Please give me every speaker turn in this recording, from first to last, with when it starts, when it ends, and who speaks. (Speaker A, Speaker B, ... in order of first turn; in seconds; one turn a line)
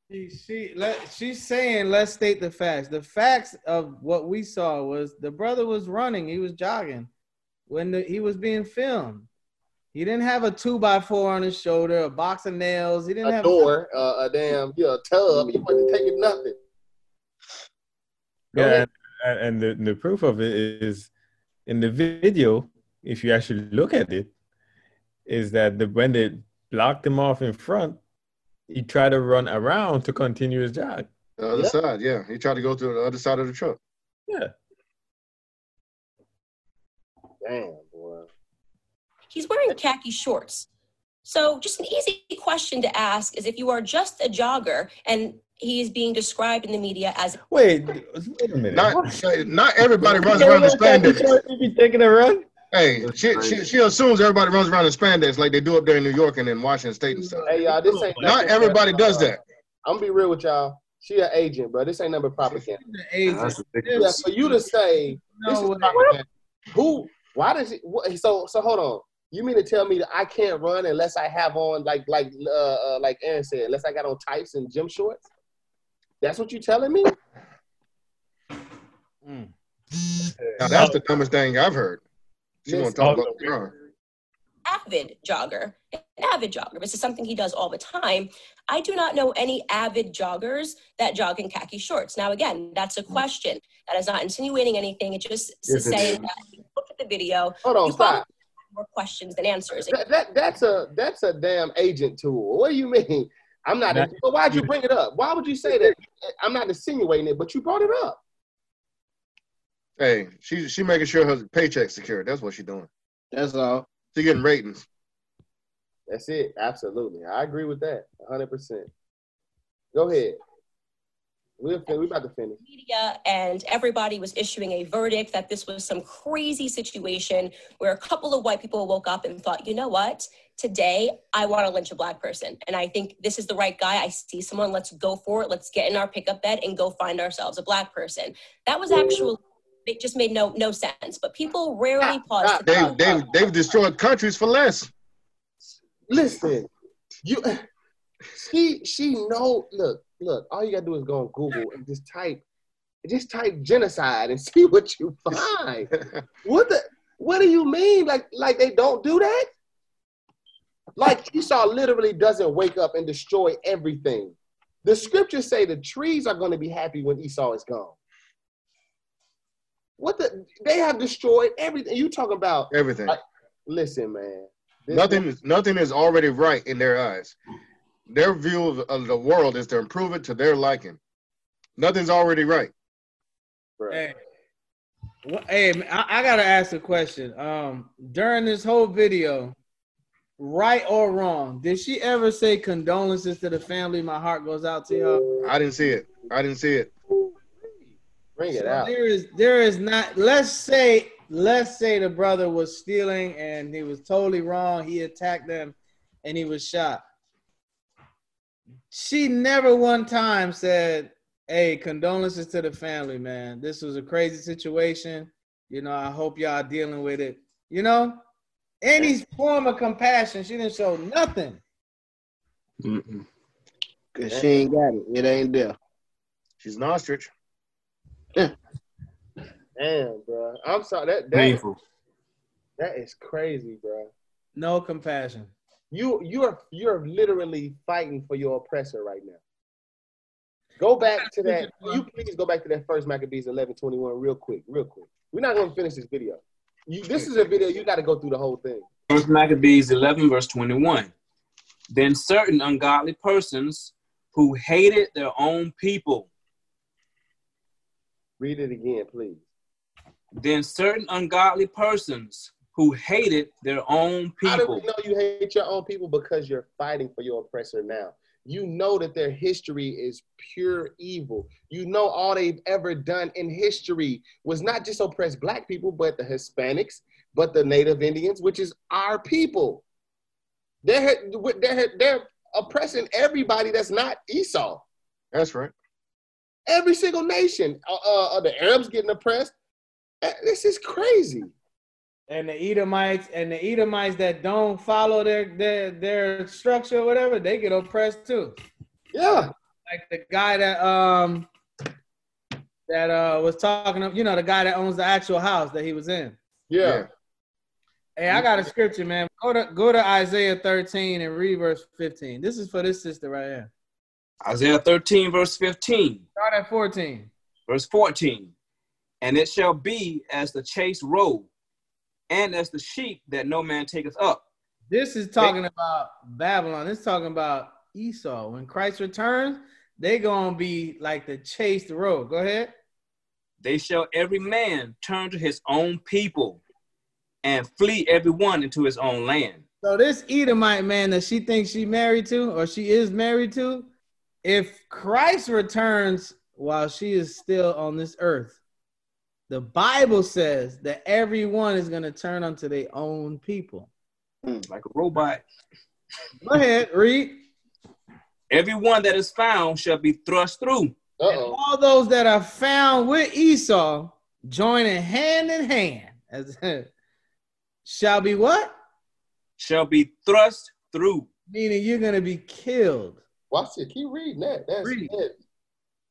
Speaker A: 0.1-7.1
Speaker A: 7.7-9.3
Speaker A: 9.9-13.7
Speaker B: 13.2-16.6
Speaker C: 18.5-21.1
Speaker B: 18.6-18.9
Speaker C: 21.7-24.3
Speaker C: 25.3-28.0
Speaker C: 28.7-31.1
Speaker D: 31.4-33.8
Speaker B: 37.4-38.3
Speaker E: 39.3-40.7
Speaker E: 41.2-47.4
Speaker C: 47.5-49.2
Speaker D: 48.7-51.3
Speaker C: 50.0-52.5
Speaker D: 52.7-57.5
Speaker F: 53.0-53.7
Speaker A: 57.1-58.1
Speaker B: 57.5-62.8
Speaker C: 57.9-58.4
Speaker D: 58.2-59.4
Speaker A: 62.7-66.2
Speaker G: 63.3-63.6
Speaker F: 63.5-63.9
Speaker B: 64.0-75.2
Speaker B: 76.2-77.1
Speaker A: 79.2-79.5
Speaker C: 80.2-81.0
Speaker D: 80.6-82.0
Speaker D: 82.7-83.7
Speaker B: 82.7-83.5
Speaker C: 83.0-83.3
Speaker E: 84.7-100.0
Speaker C: 95.7-96.3
Speaker B: 97.6-98.3
Speaker B: 99.7-108.2
Speaker C: 103.9-104.7
Speaker D: 110.0-112.9
Speaker F: 113.3-113.9
Speaker D: 114.1-114.9
Speaker B: 116.1-118.9
Speaker B: 119.9-120.4
Speaker B: 121.6-122.6
Speaker E: 122.7-143.5
Speaker B: 142.0-143.2
Speaker D: 142.7-144.9
Speaker B: 146.1-146.7
Speaker B: 147.2-147.6
Speaker B: 148.3-152.4
Speaker B: 153.0-155.9
Speaker B: 156.4-159.5
Speaker B: 161.0-168.0
Speaker B: 170.0-175.3
Speaker D: 172.7-173.2
Speaker D: 174.9-177.4
Speaker D: 178.1-181.0
Speaker D: 181.8-182.7
Speaker B: 183.8-184.1
Speaker A: 183.9-184.2
Speaker A: 185.2-189.6
Speaker A: 190.4-195.2
Speaker D: 195.4-196.9
Speaker B: 198.4-198.9
Speaker A: 198.5-207.0
Speaker A: 208.9-218.2
Speaker A: 218.8-221.6
Speaker F: 222.8-223.2
Speaker F: 224.2-225.8
Speaker B: 224.3-224.6
Speaker D: 226.6-227.3
Speaker B: 229.8-231.6
Speaker G: 231.3-231.8
Speaker B: 232.8-234.1
Speaker A: 234.6-235.5
Speaker B: 235.9-239.4
Speaker B: 240.8-248.9
Speaker A: 241.2-242.1
Speaker G: 249.1-251.1
Speaker G: 251.9-256.3
Speaker B: 258.4-259.4
Speaker G: 260.3-264.8
Speaker B: 264.4-279.8
Speaker B: 280.8-284.8
Speaker D: 285.3-285.7
Speaker B: 286.7-289.5
Speaker B: 290.2-291.5
Speaker A: 292.3-298.6
Speaker B: 299.1-299.5
Speaker A: 299.2-301.5
Speaker A: 302.9-306.4
Speaker B: 306.7-307.1
Speaker D: 306.8-307.1
Speaker A: 308.2-313.7
Speaker G: 314.4-316.2
Speaker A: 316.4-317.3
Speaker G: 317.7-318.5
Speaker G: 319.2-321.5
Speaker G: 322.3-324.4
Speaker A: 324.9-332.7
Speaker G: 333.6-336.6
Speaker G: 337.4-339.6
Speaker A: 339.8-343.9
Speaker A: 344.4-348.6
Speaker A: 349.5-353.9
Speaker G: 354.7-355.4
Speaker A: 356.4-357.5
Speaker G: 358.5-361.0
Speaker B: 361.2-361.6
Speaker A: 361.3-366.9
Speaker A: 367.9-368.7
Speaker G: 369.6-371.3
Speaker A: 371.5-373.2
Speaker B: 373.5-375.4
Speaker A: 374.8-375.1